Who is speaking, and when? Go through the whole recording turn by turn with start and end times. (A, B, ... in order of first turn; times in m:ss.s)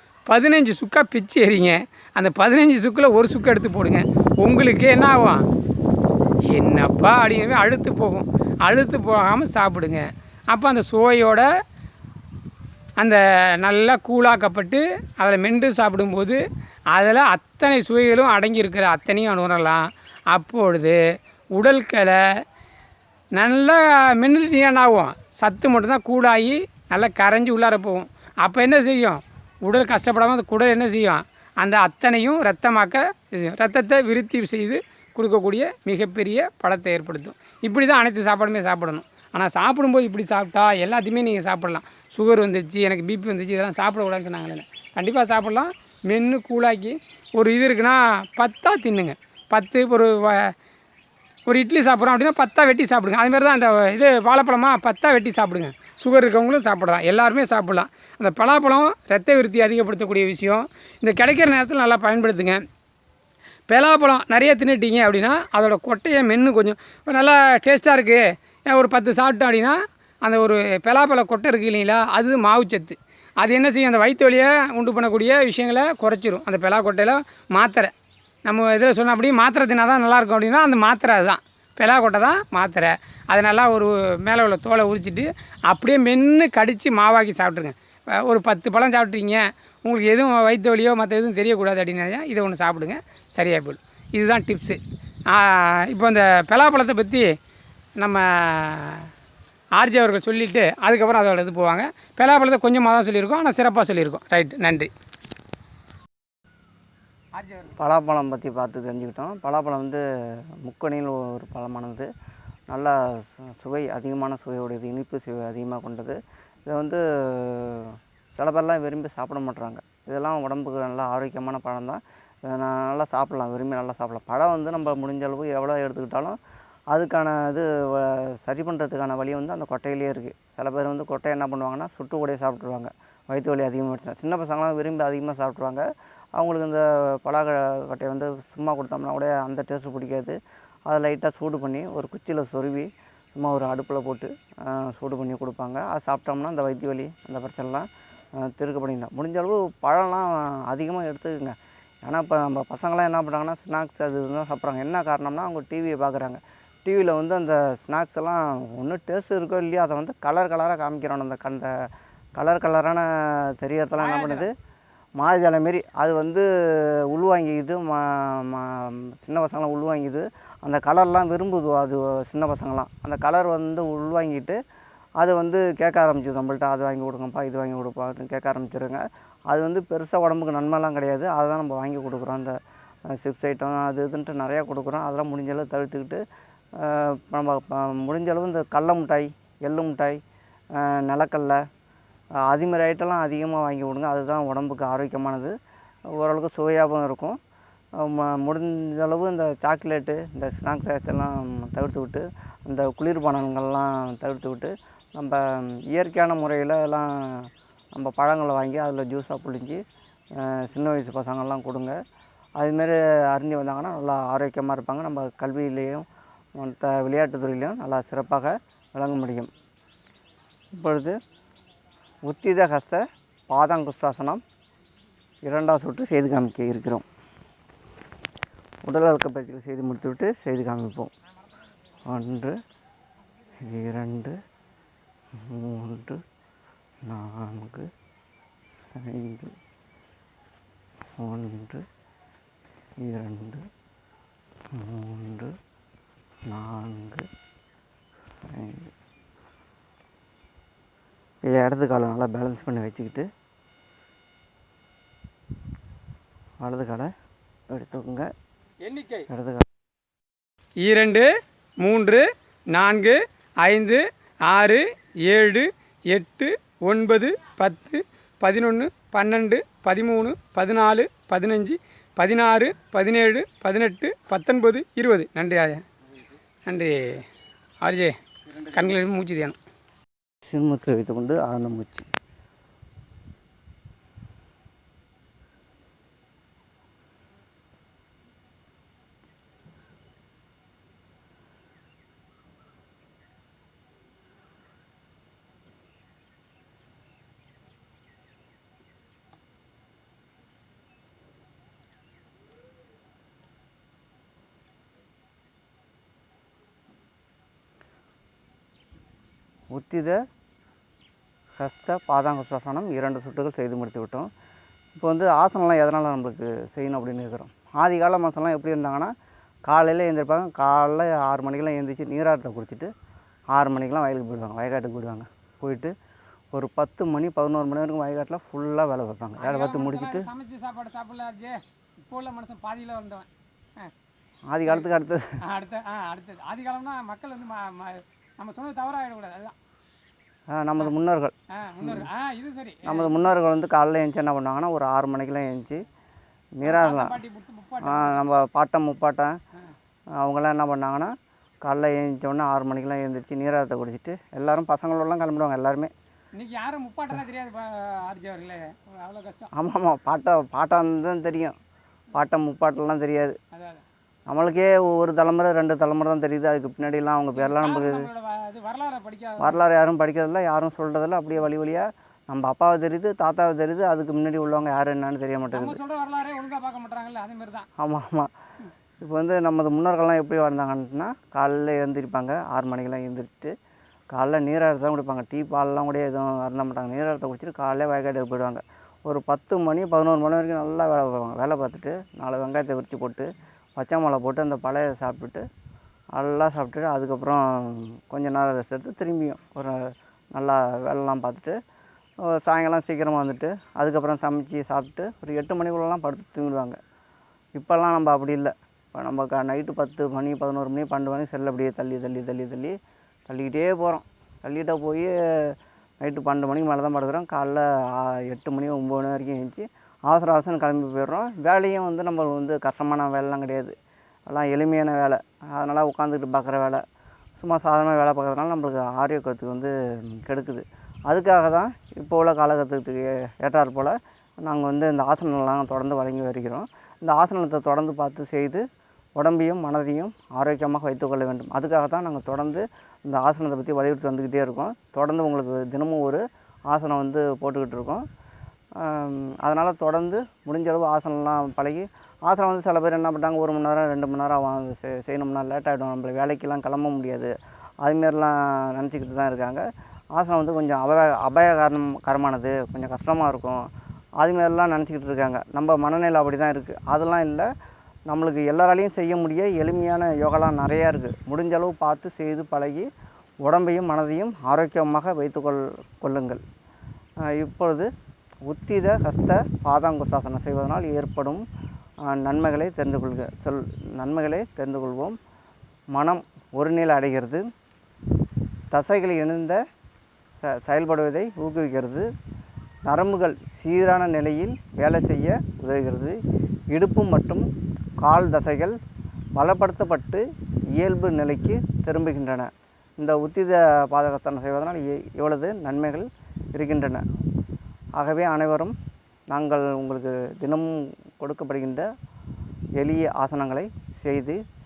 0:00.3-0:05.5 A
0:06.4-0:11.5 A
0:13.0-0:21.0 A
0:21.6-0:22.4 A
0:23.4-0:50.5 A
0:51.5-1:02.6 A
1:03.7-1:17.9 A
1:18.4-1:37.3 A
1:38.0-1:39.1 A
1:39.8-1:44.9 A
1:47.4-1:47.8 A
1:47.8-1:50.0 B
1:50.6-1:52.1 B
1:52.7-2:06.4 B
2:06.9-2:15.8 B
2:16.4-2:41.7 B
2:42.4-2:44.5 B
2:44.0-2:44.5 A
2:45.2-2:54.6 B
2:55.2-3:02.5 B
3:03.1-3:06.2 B
3:06.8-3:10.2 B
3:10.8-3:11.6 B
3:12.5-3:15.5 B
3:16.1-3:17.4 B
3:18.0-3:29.8 B
3:30.4-3:32.0 B
3:32.6-3:36.0 B
3:36.6-3:39.5 B
3:40.8-3:41.2 B
3:42.3-3:44.4 B
3:45.5-3:47.0 B
3:48.9-3:51.1 B
3:52.1-3:52.6 B
3:53.6-3:54.4 B
3:55.3-3:56.2 B
3:57.1-3:57.9 B
3:59.0-3:59.5 B
4:01.2-4:01.9 B
4:03.0-4:03.6 B
4:04.7-4:05.6 B
4:06.5-4:07.3 B
4:08.5-4:08.9 B
4:11.4-4:13.3 B
4:16.6-4:17.1 B
4:17.7-4:18.3 B
4:18.8-4:19.3 A
4:19.3-4:19.7 B
4:20.8-4:21.3 A
4:21.8-4:35.8 A
4:36.7-4:37.2 A
4:37.8-4:38.2 A
4:38.7-4:39.6 A
4:40.4-4:42.1 B
5:09.7-5:10.2 B
5:11.6-5:14.3 B
5:15.0-5:19.1 B
5:19.7-5:22.9 B
5:23.5-5:25.9 B
5:26.5-5:30.3 B
5:29.4-5:33.9 A
5:34.5-5:35.4 B
5:35.4-5:39.6 A
5:40.5-5:42.1 B
5:41.5-5:43.2 A
5:42.8-5:45.8 B
5:46.6-5:47.2 B
5:46.6-5:48.2 A
5:47.8-5:49.4 B
5:50.2-5:51.1 B
5:51.6-5:55.9 B
5:56.4-5:59.5 A
5:59.5-6:01.5 B
6:02.1-6:03.4 B
6:03.5-6:03.8 A
6:04.3-6:08.1 B
6:07.4-6:09.6 A
6:09.4-6:15.8 B
6:15.5-6:17.7 A
6:17.8-6:18.3 B
6:19.0-6:23.5 B
6:24.1-6:35.4 B
6:36.2-6:41.6 B
6:42.3-6:46.8 B
6:47.6-6:52.8 B
6:53.3-7:03.8 B
7:04.3-7:06.8 B
7:07.4-7:18.6 B
7:19.2-7:28.0 B
7:28.8-7:37.3 B
7:37.8-7:39.6 B
7:40.2-7:43.6 B
7:44.2-7:47.5 B
7:48.1-7:52.9 B
7:53.4-7:56.4 B
7:57.3-7:57.9 B
7:58.5-8:01.4 B
8:02.1-8:05.2 B
8:05.9-8:07.4 B
8:08.7-8:09.6 B
8:10.4-8:12.1 B
8:12.9-8:16.2 B
8:16.7-8:17.5 B
8:18.0-8:18.8 B
8:19.4-8:20.2 B
8:20.8-8:27.0 B
8:28.0-8:28.8 B
8:29.3-8:31.9 B
8:32.8-8:34.4 B